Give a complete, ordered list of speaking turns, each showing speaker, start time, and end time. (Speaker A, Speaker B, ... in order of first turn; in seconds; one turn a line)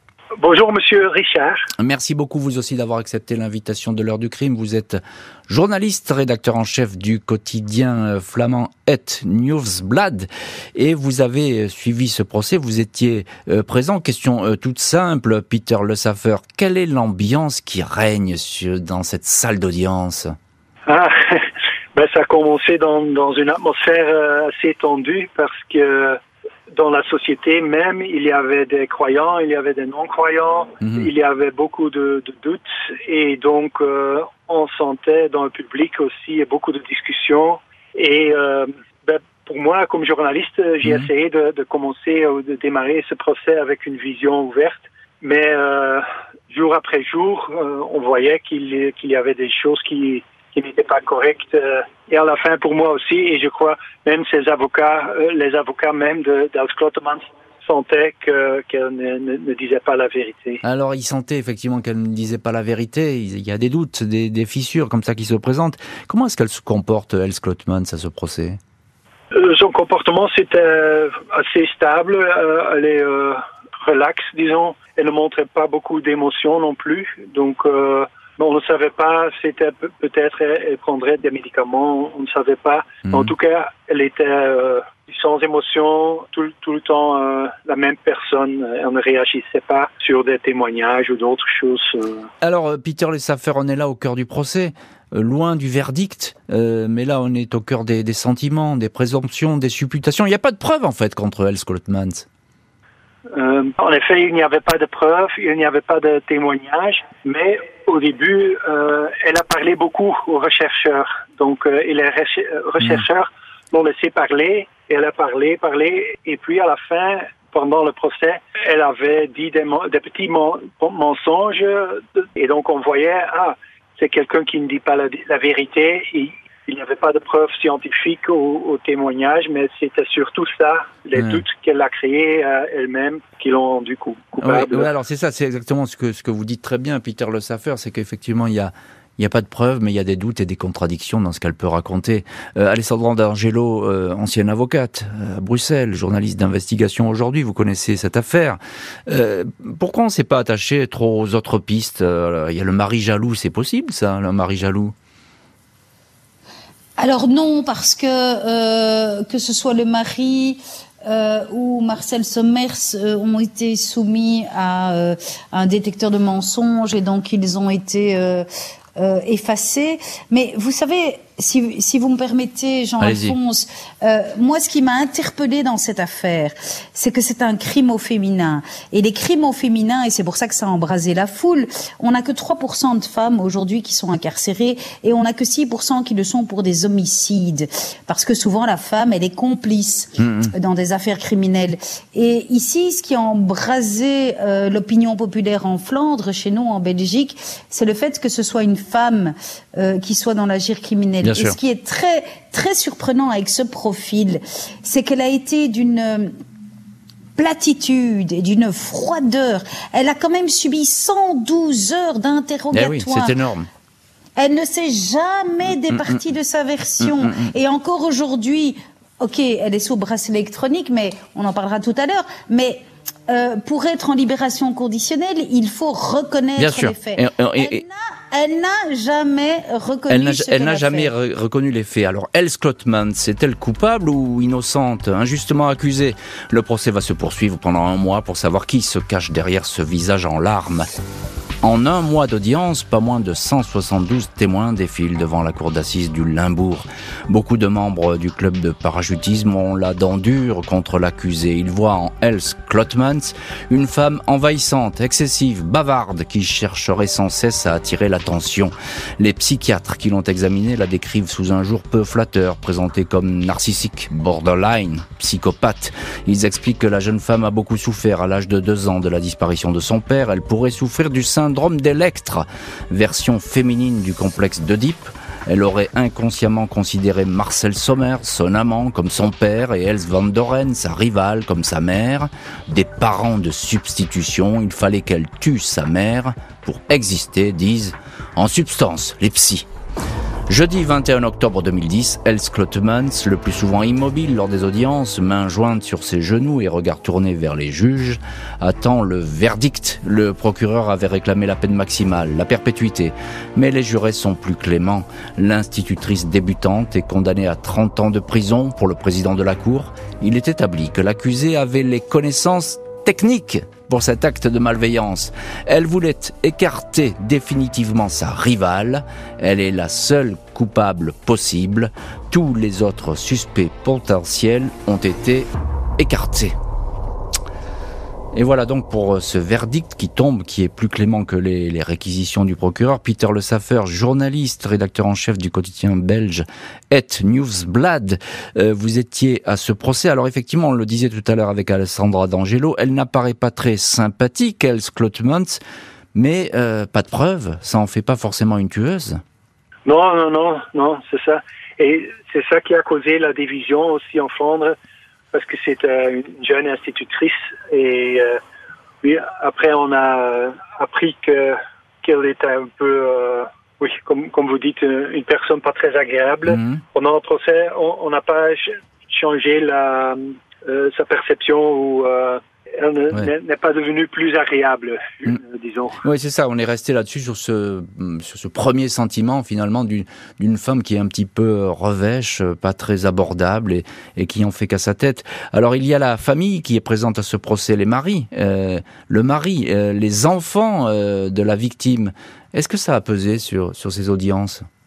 Speaker A: 0.4-1.7
Speaker B: 1.8-20.4
Speaker A: 20.9-60.6
Speaker B: 30.8-31.1
Speaker B: 60.6-68.6
Speaker A: 69.3-92.3
Speaker B: 92.4-102.2
Speaker A: 103.3-134.9
Speaker B: 131.1-131.4
Speaker B: 134.4-154.9
Speaker C: 157.0-206.3
Speaker B: 173.0-173.3
Speaker B: 190.2-190.5
Speaker B: 201.2-201.6
Speaker C: 207.3-213.3
Speaker B: 212.7-213.7
Speaker C: 214.4-231.1
Speaker B: 215.9-216.2
Speaker B: 217.0-217.5
Speaker B: 226.6-227.8
Speaker B: 230.1-240.9
Speaker B: 241.6-289.7
Speaker B: 290.5-326.5
Speaker B: 328.3-345.6
Speaker B: 346.1-349.2
Speaker A: 349.9-354.8
Speaker A: 355.3-358.4
Speaker A: 359.0-376.0
Speaker B: 366.5-366.8
Speaker B: 376.0-394.6